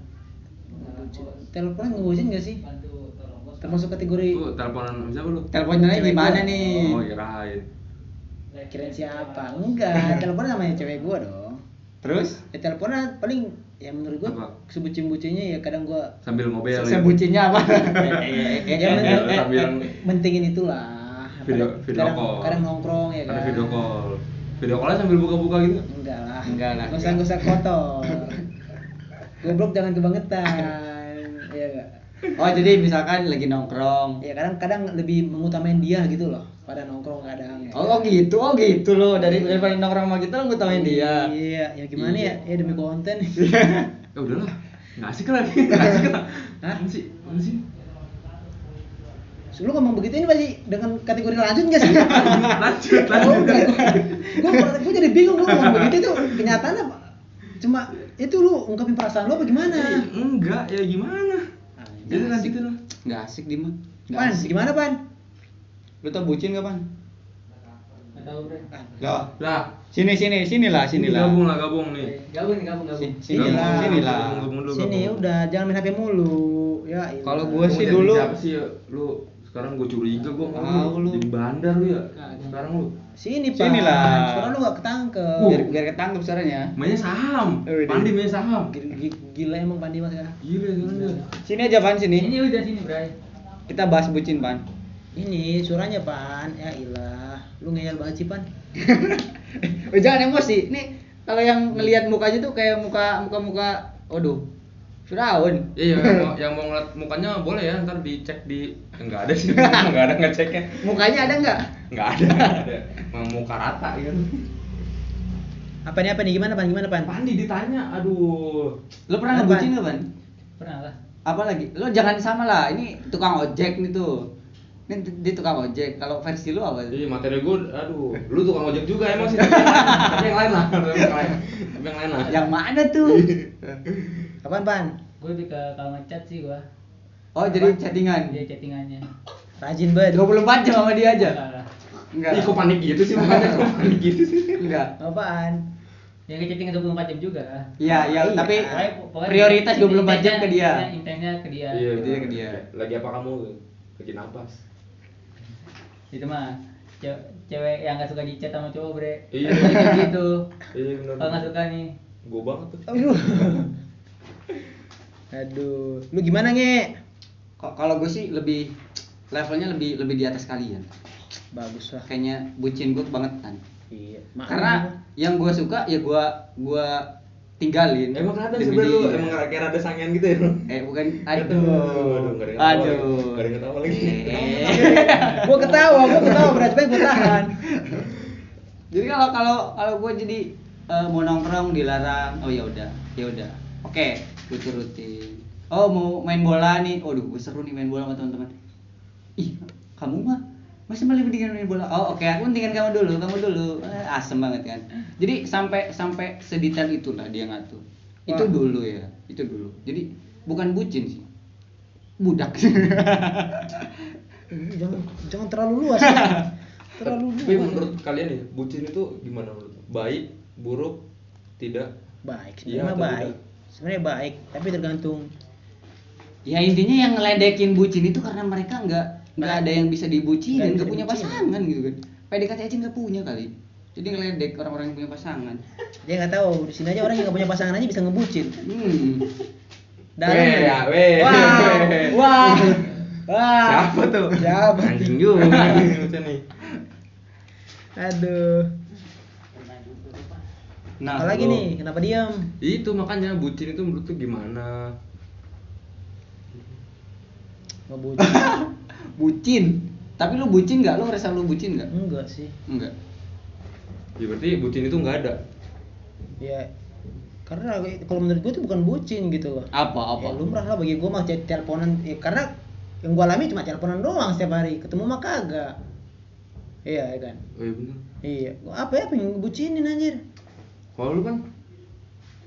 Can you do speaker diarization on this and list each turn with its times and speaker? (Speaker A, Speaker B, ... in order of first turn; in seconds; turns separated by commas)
Speaker A: 0.7-2.6, Speaker B: 0.8-1.4, Speaker B: 2.6-3.9, Speaker A: 3.6-4.4, Speaker C: 4.3-5.5, Speaker D: 5.5-7.0, Speaker A: 5.8-6.8, Speaker C: 6.8-7.7, Speaker B: 8.5-9.9, Speaker A: 8.7-11.6, Speaker D: 12.0-12.4, Speaker A: 12.5-16.1, Speaker C: 14.2-14.5, Speaker C: 16.2-17.2, Speaker D: 16.7-19.7, Speaker C: 17.8-19.9, Speaker A: 18.7-23.9, Speaker C: 21.4-22.6, Speaker C: 23.3-25.9, Speaker A: 25.9-28.4, Speaker D: 26.5-27.3, Speaker A: 29.4-31.9, Speaker D: 32.4-34.2, Speaker A: 34.2-38.0, Speaker D: 37.7-41.3, Speaker A: 39.2-39.6, Speaker A: 40.7-43.5, Speaker D: 42.0-42.3, Speaker D: 43.4-43.9, Speaker C: 44.1-47.6, Speaker A: 45.7-46.1, Speaker A: 49.5-57.1, Speaker C: 51.9-54.2, Speaker C: 55.5-56.6, Speaker A: 57.6-60.1, Speaker C: 59.7-61.4, Speaker A: 61.8-62.2, Speaker C: 62.1-62.8, Speaker D: 62.1-64.6, Speaker A: 64.1-65.0, Speaker D: 66.0-66.8, Speaker B: 68.1-68.7, Speaker A: 68.7-69.0, Speaker D: 69.0-69.3, Speaker C: 69.4-69.7, Speaker D: 69.9-71.4, Speaker C: 70.9-72.2, Speaker B: 72.0-73.2, Speaker D: 73.0-74.5, Speaker A: 73.3-74.1, Speaker C: 73.3-75.2, Speaker A: 74.7-77.8, Speaker D: 77.2-78.3, Speaker C: 77.7-82.9, Speaker D: 80.5-81.2, Speaker B: 82.2-82.6, Speaker A: 83.2-85.7, Speaker D: 83.6-84.5, Speaker D: 85.4-86.7, Speaker C: 86.8-88.7, Speaker D: 87.7-88.1, Speaker A: 88.7-90.4, Speaker C: 90.4-91.2, Speaker B: 90.8-91.2, Speaker D: 91.4-92.3, Speaker B: 92.2-93.1, Speaker D: 93.7-94.6, Speaker A: 95.2-98.5, Speaker D: 98.8-104.4, Speaker D: 105.1-106.3, Speaker C: 105.8-111.3, Speaker D: 110.8-111.7, Speaker C: 111.9-114.5, Speaker A: 115.9-117.2, Speaker C: 117.0-118.8, Speaker D: 119.1-120.1, Speaker A: 119.3-119.7, Speaker B: 120.6-121.0, Speaker D: 121.3-124.1, Speaker D: 124.9-127.0, Speaker C: 126.9-132.3, Speaker D: 129.3-130.1, Speaker B: 132.2-132.5, Speaker D: 132.3-133.4, Speaker A: 134.4-134.9, Speaker B: 135.2-136.6, Speaker D: 137.3-138.4, Speaker B: 137.5-137.8, Speaker B: 138.3-139.1, Speaker A: 139.6-140.2, Speaker D: 140.1-141.4, Speaker B: 141.2-141.7, Speaker D: 142.1-142.6, Speaker C: 142.3-144.7, Speaker D: 144.6-144.9, Speaker A: 145.0-145.6, Speaker B: 146.3-147.7, Speaker D: 147.8-148.7, Speaker A: 147.9-148.9, Speaker B: 148.7-152.0, Speaker D: 149.2-150.9, Speaker C: 151.7-154.6, Speaker D: 151.9-152.6, Speaker B: 156.1-160.5, Speaker C: 159.3-160.0, Speaker C: 160.7-161.5, Speaker B: 161.2-161.9, Speaker C: 162.2-162.9, Speaker A: 162.9-163.7, Speaker A: 165.3-166.9, Speaker D: 167.6-168.7, Speaker D: 169.3-170.9, Speaker A: 171.5-172.1, Speaker D: 172.1-173.6, Speaker A: 173.9-174.9, Speaker D: 174.5-177.1, Speaker D: 177.6-179.4, Speaker C: 178.2-180.7, Speaker D: 180.7-188.1, Speaker C: 181.2-185.3, Speaker A: 184.7-187.6, Speaker D: 188.9-198.5, Speaker D: 199.4-211.2, Speaker D: 212.2-213.9, Speaker A: 214.5-218.0, Speaker C: 217.0-221.0, Speaker C: 221.6-221.9, Speaker A: 222.2-225.3, Speaker C: 222.7-223.4, Speaker D: 226.5-235.6, Speaker A: 229.4-229.7, Speaker A: 230.5-231.5, Speaker A: 236.1-238.6, Speaker D: 238.6-239.3, Speaker A: 240.2-246.0, Speaker C: 240.2-242.7, Speaker C: 243.6-246.4, Speaker A: 248.0-248.7, Speaker B: 249.6-250.4, Speaker D: 251.0-251.6, Speaker A: 251.1-252.3, Speaker C: 252.6-254.8, Speaker A: 257.9-258.5, Speaker D: 258.2-261.9, Speaker A: 261.9-262.5, Speaker C: 264.2-265.4, Speaker A: 266.4-266.7, Speaker A: 267.5-272.5, Speaker D: 269.7-270.4, Speaker A: 273.0-275.8, Speaker A: 276.9-277.4, Speaker C: 277.6-278.0, Speaker A: 278.2-280.2, Speaker C: 281.0-281.4